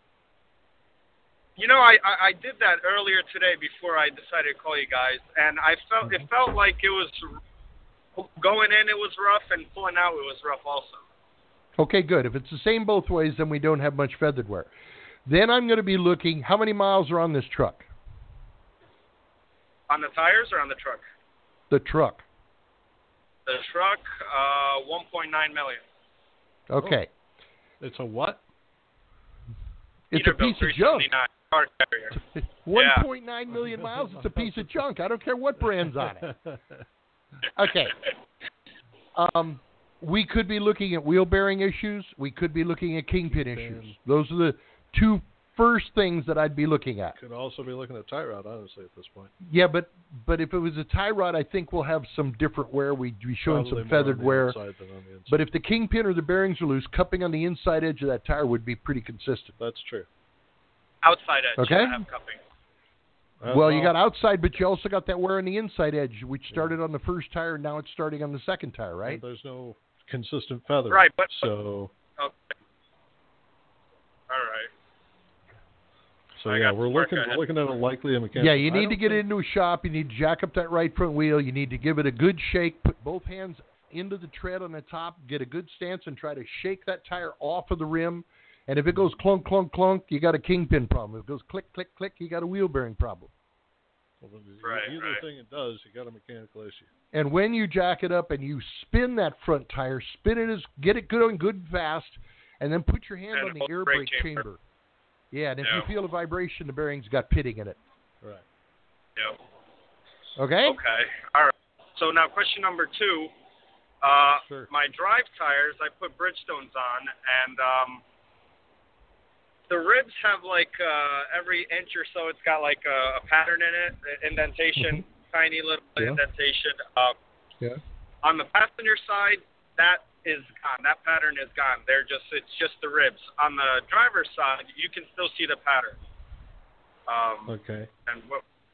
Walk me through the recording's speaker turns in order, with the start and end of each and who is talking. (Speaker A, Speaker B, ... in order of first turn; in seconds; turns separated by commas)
Speaker A: 1.6-7.4, Speaker A: 8.2-11.0, Speaker B: 11.8-14.7, Speaker B: 15.3-17.9, Speaker A: 19.9-21.0, Speaker B: 21.7-22.2, Speaker A: 23.5-25.8, Speaker B: 26.7-27.1, Speaker C: 27.8-28.4, Speaker B: 30.1-31.1, Speaker A: 30.1-32.2, Speaker B: 32.1-36.3, Speaker A: 32.7-33.1, Speaker C: 34.2-34.7, Speaker C: 36.0-36.9, Speaker B: 37.5-38.0, Speaker B: 39.1-47.2, Speaker C: 43.3-44.0, Speaker C: 47.2-49.3, Speaker B: 49.4-54.6, Speaker C: 53.5-55.4, Speaker B: 55.3-59.5, Speaker C: 59.6-60.1, Speaker A: 61.0-62.4, Speaker B: 61.6-62.0, Speaker C: 63.4-63.9, Speaker B: 63.5-69.2, Speaker C: 66.5-66.8, Speaker C: 69.1-71.9, Speaker A: 70.9-71.5, Speaker A: 72.2-72.5, Speaker A: 74.3-74.7, Speaker C: 76.4-79.2, Speaker A: 76.5-77.4, Speaker B: 78.4-93.3, Speaker C: 94.2-96.9, Speaker A: 94.6-95.2, Speaker B: 97.1-104.6, Speaker A: 103.3-104.4, Speaker B: 105.3-107.8, Speaker A: 105.6-105.9, Speaker B: 110.4-110.8, Speaker A: 110.7-113.3, Speaker A: 114.0-118.0, Speaker A: 119.7-127.2, Speaker B: 124.8-125.0, Speaker A: 128.2-136.0, Speaker A: 137.1-138.4, Speaker C: 137.5-137.9